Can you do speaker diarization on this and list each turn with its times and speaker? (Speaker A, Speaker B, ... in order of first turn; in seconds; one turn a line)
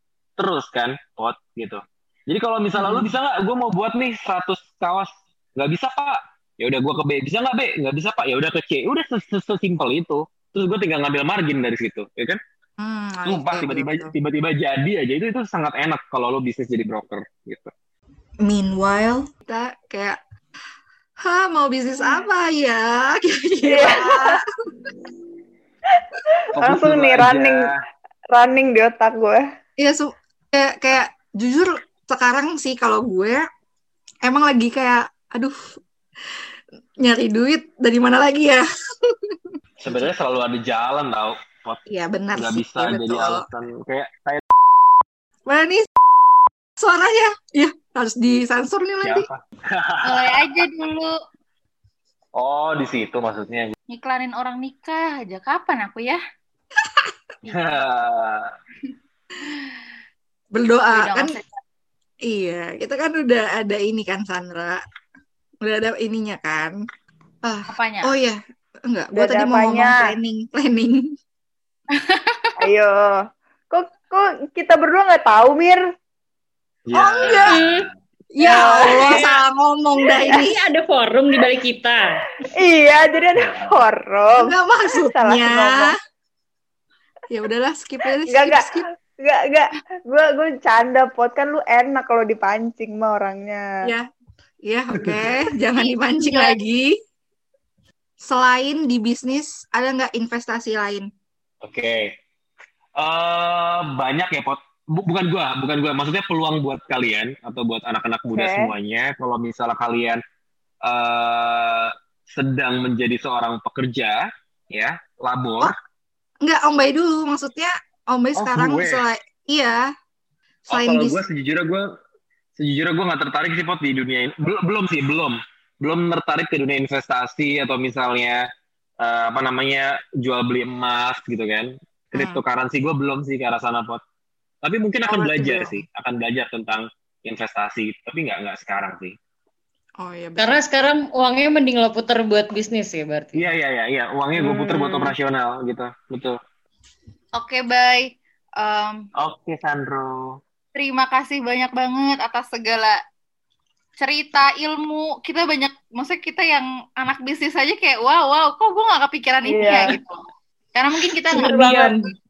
Speaker A: 0.4-12.4
Speaker B: 2.7-3.1
Speaker B: 12.8-14.1
Speaker A: 13.2-17.7
Speaker B: 18.4-20.2
Speaker B: 21.2-24.4
Speaker C: 23.6-24.4
Speaker A: 26.6-27.8
Speaker C: 26.6-27.6
Speaker C: 28.3-29.4
Speaker B: 29.8-33.4
Speaker B: 34.2-35.5
Speaker B: 37.0-40.1
Speaker A: 39.8-41.8
Speaker B: 41.9-43.4
Speaker A: 42.3-44.4
Speaker B: 45.5-45.9
Speaker B: 46.8-49.3
Speaker A: 49.0-50.4
Speaker D: 50.0-51.1
Speaker A: 52.3-53.8
Speaker D: 53.9-56.2
Speaker A: 57.4-58.5
Speaker B: 60.5-61.4
Speaker D: 61.0-61.5
Speaker B: 62.3-64.8
Speaker B: 65.6-66.7
Speaker B: 67.4-71.1
Speaker D: 67.7-68.2
Speaker C: 69.1-70.1
Speaker D: 72.0-72.5
Speaker C: 72.6-73.1
Speaker C: 73.7-75.8
Speaker A: 76.9-77.8
Speaker B: 76.9-77.6
Speaker E: 77.3-77.9
Speaker B: 78.3-80.7
Speaker C: 78.4-79.3
Speaker C: 80.2-80.4
Speaker E: 80.3-82.2
Speaker C: 82.6-85.9
Speaker A: 83.5-83.7
Speaker B: 84.4-85.9
Speaker B: 87.3-88.8
Speaker C: 88.2-93.6
Speaker B: 94.7-96.9
Speaker A: 95.0-95.3
Speaker D: 95.8-96.6
Speaker B: 98.2-101.0
Speaker A: 101.6-102.1
Speaker A: 103.0-110.2
Speaker C: 108.3-108.7
Speaker A: 110.8-115.7
Speaker B: 116.4-119.8
Speaker A: 118.3-119.0
Speaker B: 120.7-121.2
Speaker A: 120.7-121.8
Speaker A: 122.6-128.4
Speaker A: 129.0-134.0
Speaker B: 132.1-132.4
Speaker A: 134.6-139.1
Speaker B: 135.0-135.8
Speaker B: 140.0-140.6
Speaker E: 140.4-143.5
Speaker A: 143.3-146.4
Speaker C: 144.4-145.1
Speaker D: 147.4-148.1
Speaker D: 148.6-149.0
Speaker A: 149.2-150.4
Speaker D: 150.7-152.9
Speaker D: 154.0-160.2
Speaker C: 159.4-160.0
Speaker D: 160.8-161.6
Speaker C: 161.3-161.9
Speaker E: 161.5-161.9